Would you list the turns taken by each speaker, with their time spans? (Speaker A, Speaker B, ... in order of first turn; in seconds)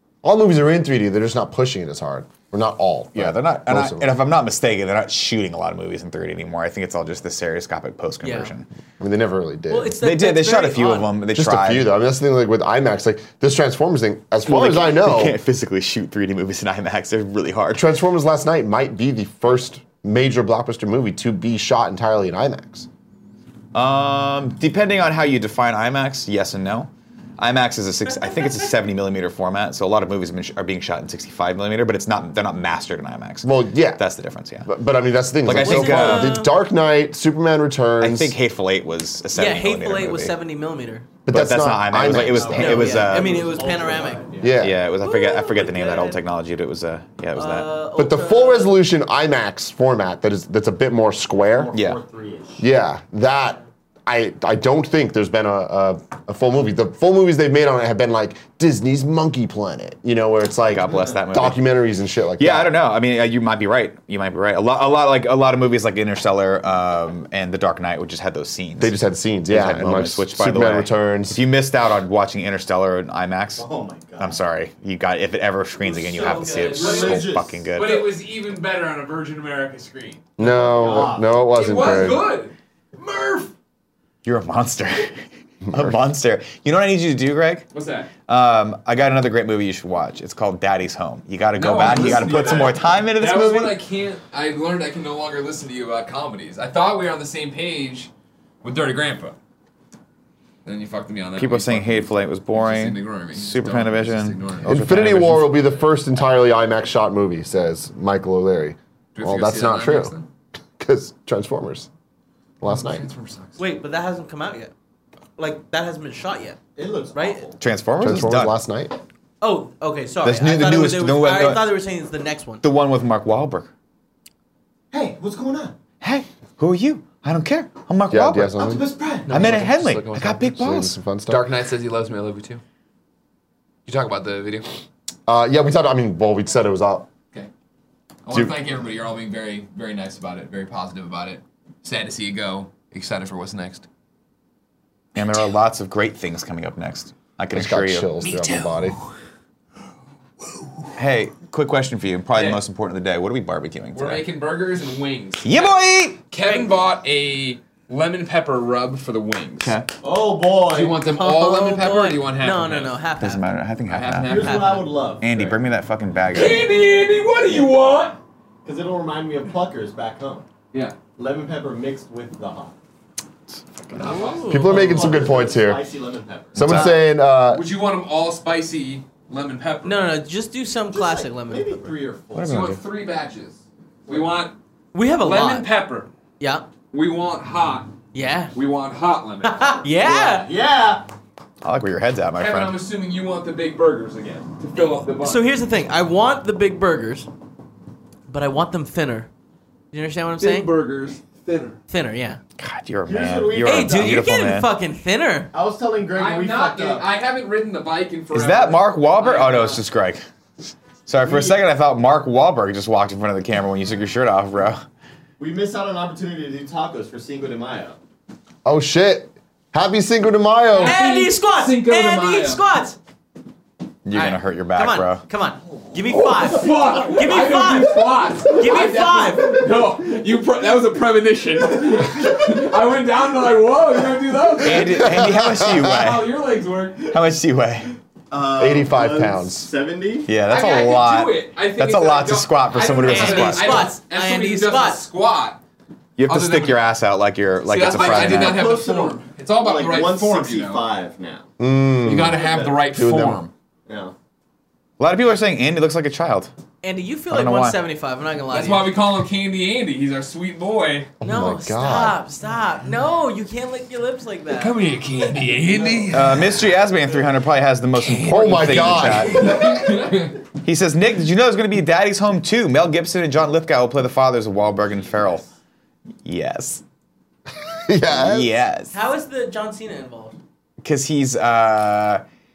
Speaker A: 0.2-4.2, 9.0-9.9, 11.3-15.4, 17.7-22.9, 33.4-34.0, 34.6-38.3, 41.2-42.9, 44.4-44.8, 48.0-51.7, 52.6-62.7, 68.8-71.4, 80.4-82.2, 85.6-86.0, 104.7-110.1, 110.8-111.9, 112.6-113.0, 118.0-119.0, 128.1-128.8, 130.4-131.5, 135.3-137.1, 147.5-149.0, 174.5-175.8, 176.5-177.6, 218.6-221.0, 234.8-235.9, 238.6-239.7, 251.6-252.4, 252.9-253.4, 261.2-262.2, 268.3-269.6, 277.9-278.5
Speaker B: 3.1-8.7, 10.0-11.9, 14.4-17.9, 23.7-34.7, 35.4-36.4, 38.0-40.3, 41.3-43.3, 44.6-47.7, 51.7-52.0, 60.7-61.6, 62.4-68.9, 69.5-73.6, 74.2-78.1, 84.2-85.2, 85.7-87.7, 88.3-93.8, 101.3-105.5, 117.6-118.5, 120.2-121.7, 122.6-123.7, 126.0-128.6, 129.3-130.9, 145.2-148.1, 150.9-154.2, 155.4-156.2, 159.6-159.9, 163.2-164.5, 165.2-166.6, 182.3-182.8, 191.6-192.8, 202.6-204.7, 208.3-210.2, 211.1-214.8, 224.0-225.2, 234.6-236.3, 237.1-237.9, 240.3-243.9, 246.2-248.7, 255.0-256.5, 257.3-257.8, 266.1-269.6, 270.6-275.4, 276.2-276.8, 278.1-278.9, 280.8-282.2
Speaker C: 8.2-8.5, 9.7-11.1, 28.1-28.7, 35.5-36.5, 39.3-41.1, 42.5-44.2, 45.0-46.2, 47.4-48.8, 75.8-77.2, 113.6-114.7, 115.4-116.6, 117.1-117.4, 119.4-122.6, 156.4-156.7, 161.0-163.5, 164.3-165.0, 174.0-174.8, 179.8-181.9, 184.9-185.7, 186.4-186.7, 188.1-188.5, 189.4-190.5, 195.2-197.3, 198.3-199.3, 199.9-200.7, 201.9-202.4, 203.6-205.5, 220.8-223.0, 224.7-229.6, 243.0-245.0, 256.8-258.9, 261.2-264.8, 278.9-280.4
Speaker D: 42.0-44.6, 51.5-52.6, 73.5-74.4, 76.7-77.6, 80.4-81.4, 116.8-117.6, 124.9-125.7, 128.6-129.4, 160.0-161.0, 164.2-165.6, 168.6-170.4, 171.2-172.8, 174.6-176.8, 180.9-182.7, 184.1-184.3, 190.0-191.1, 203.1-204.2, 205.5-207.1, 211.2-211.6, 215.4-218.0, 238.3-240.3, 247.8-251.5, 252.2-252.9, 253.9-254.1
Speaker E: 76.7-80.3, 81.5-83.5, 87.7-88.1, 91.5-98.1, 98.6-99.3, 100.6-104.9, 109.1-110.3, 112.7-113.6, 129.3-130.5, 131.3-132.6, 133.8-134.7, 138.2-143.8, 148.2-149.0, 150.4-150.8, 152.3-152.6, 153.9-159.8, 160.6-163.0, 163.9-164.8, 166.3-168.2, 173.9-175.1, 176.7-176.9, 177.5-180.2, 182.4-184.6, 185.2-186.1, 186.9-187.9, 188.5-189.8, 192.4-195.5, 200.4-201.8, 206.1-209.8, 220.8-222.6, 226.4-237.1, 240.5-245.6, 246.3-246.8, 247.7-250.9, 252.0-253.5, 258.5-261.1, 264.5-266.7, 268.0-270.4